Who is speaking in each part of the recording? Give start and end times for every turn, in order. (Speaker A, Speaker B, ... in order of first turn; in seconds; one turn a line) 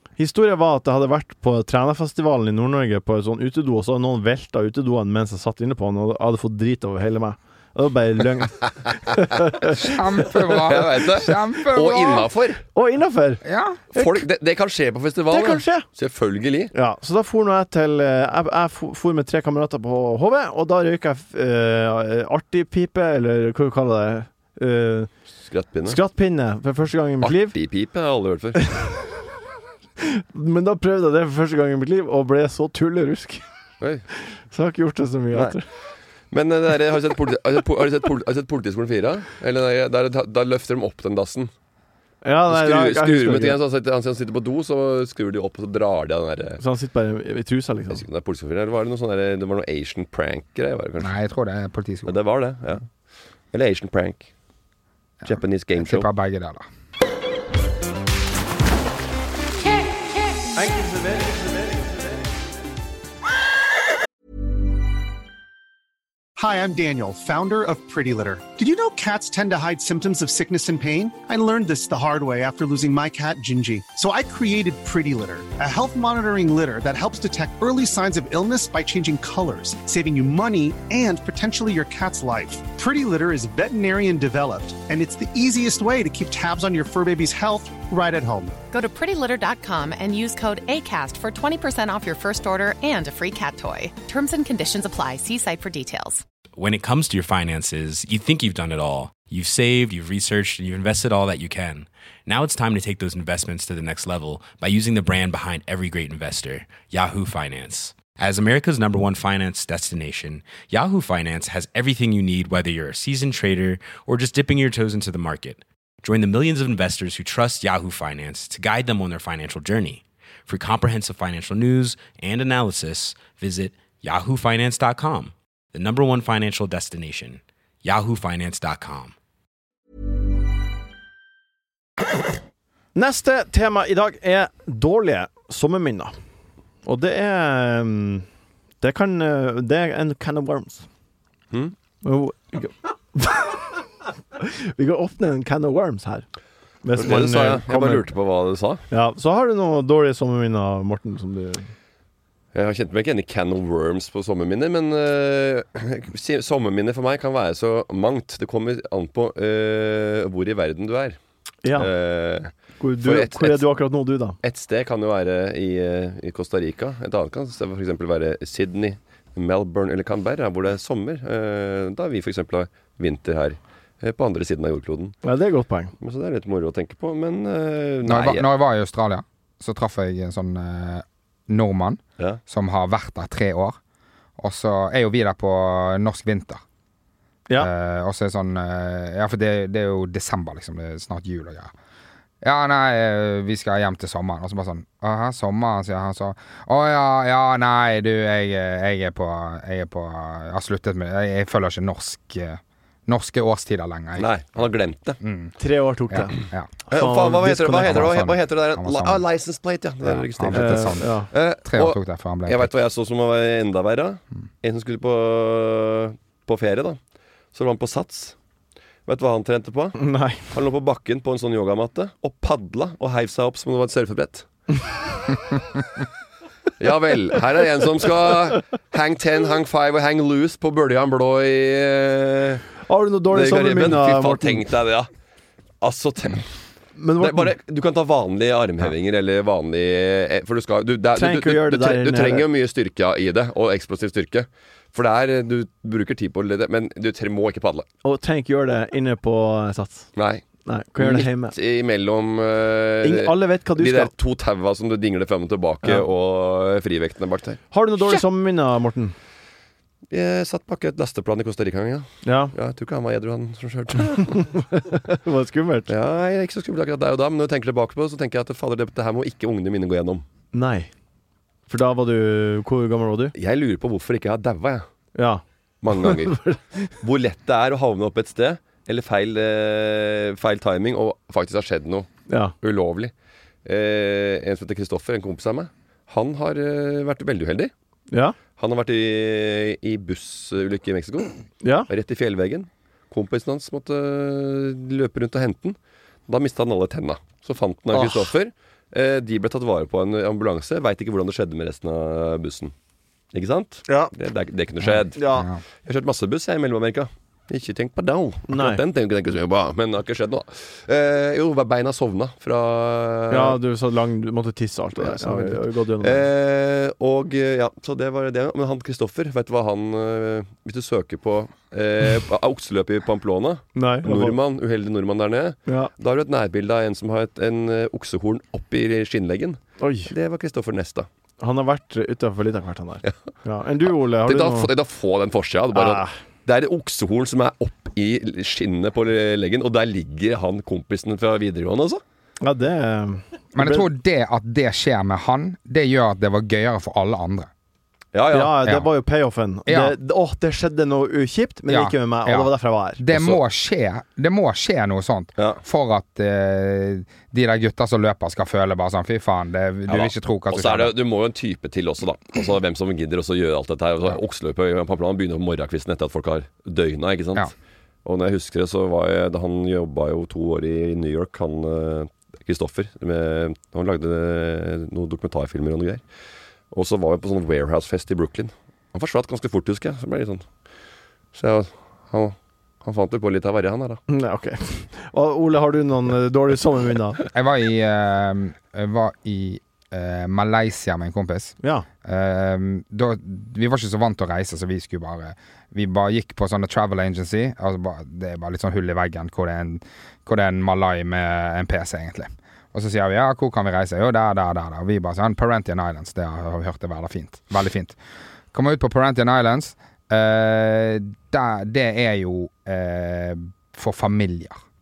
Speaker A: 0.2-10.0
Speaker B: 9.7-12.3
Speaker C: 10.6-12.6
Speaker A: 12.7-14.2
Speaker B: 13.4-13.8
Speaker C: 13.9-16.7
Speaker A: 15.3-15.9
Speaker A: 16.7-25.1
Speaker C: 25.5-26.0
Speaker A: 25.9-27.5
Speaker C: 27.2-28.7
Speaker A: 30.0-33.4
Speaker C: 33.8-34.0
Speaker A: 34.2-35.6
Speaker C: 35.3-35.6
Speaker C: 36.3-41.5
Speaker A: 42.2-43.6
Speaker C: 42.5-46.6
Speaker A: 46.6-48.0
Speaker C: 47.9-51.1
Speaker B: 51.0-52.1
Speaker C: 52.0-52.9
Speaker C: 53.5-54.3
Speaker B: 55.2-56.6
Speaker C: 55.2-56.1
Speaker A: 60.5-62.2
Speaker D: 66.4-88.5
Speaker E: 88.7-96.2
Speaker F: 96.6-129.1
Speaker A: 132.9-136.1
Speaker A: 136.8-138.2
Speaker A: 138.8-140.8
Speaker A: 142.0-143.7
Speaker A: 144.4-146.2
Speaker A: 146.8-148.0
Speaker C: 146.9-148.8
Speaker A: 148.9-151.7
Speaker C: 152.5-161.2
Speaker A: 161.6-161.9
Speaker C: 161.7-163.7
Speaker A: 162.8-164.4
Speaker C: 164.4-175.2
Speaker A: 175.2-175.9
Speaker C: 176.0-178.5
Speaker B: 178.0-183.8
Speaker B: 184.4-186.6
Speaker B: 187.6-191.7
Speaker B: 192.4-204.7
Speaker C: 204.2-205.2
Speaker B: 205.2-205.5
Speaker A: 205.6-208.1
Speaker B: 206.1-206.7
Speaker C: 206.9-217.0
Speaker B: 207.8-209.2
Speaker B: 210.0-211.1
Speaker A: 210.5-211.3
Speaker B: 211.6-212.7
Speaker C: 217.5-218.3
Speaker C: 219.1-224.5
Speaker A: 220.0-220.5
Speaker C: 226.8-232.7
Speaker A: 232.8-234.6
Speaker C: 233.3-235.1
Speaker C: 235.8-236.5
Speaker A: 236.9-237.5
Speaker C: 237.2-247.9
Speaker A: 241.2-242.5
Speaker A: 248.0-250.1
Speaker C: 250.2-250.4
Speaker A: 250.6-251.5
Speaker C: 251.0-258.2
Speaker A: 253.0-254.1
Speaker A: 257.7-259.1
Speaker C: 260.1-264.4
Speaker A: 262.2-262.5
Speaker A: 264.3-265.9
Speaker C: 265.9-270.2
Speaker A: 270.5-270.9
Speaker A: 271.7-273.3
Speaker C: 273.4-274.8
Speaker A: 275.1-275.4
Speaker C: 275.8-276.4
Speaker A: 275.9-276.9
Speaker C: 277.0-282.1
Speaker A: 282.3-282.5
Speaker C: 282.6-283.1
Speaker C: 283.6-287.7
Speaker A: 288.1-288.4
Speaker C: 288.6-291.3
Speaker A: 291.6-291.9
Speaker C: 291.9-295.8
Speaker C: 296.3-302.7
Speaker A: 297.9-298.2
Speaker C: 303.3-313.6
Speaker B: 304.9-305.6
Speaker A: 305.1-305.5
Speaker A: 308.5-308.8
Speaker A: 313.3-316.2
Speaker C: 315.0-331.1
Speaker A: 323.7-324.4
Speaker A: 329.8-330.1
Speaker A: 331.4-334.7
Speaker C: 333.9-342.0
Speaker A: 335.7-336.1
Speaker A: 342.4-343.9
Speaker B: 343.5-347.5
Speaker C: 348.1-348.6
Speaker A: 348.3-353.0
Speaker B: 349.7-349.9
Speaker B: 351.7-360.9
Speaker C: 353.1-353.4
Speaker C: 355.4-355.6
Speaker C: 359.9-367.5
Speaker C: 368.0-376.0
Speaker C: 376.7-380.4
Speaker C: 381.3-384.0
Speaker A: 384.1-387.2
Speaker B: 387.3-408.0
Speaker B: 408.5-414.6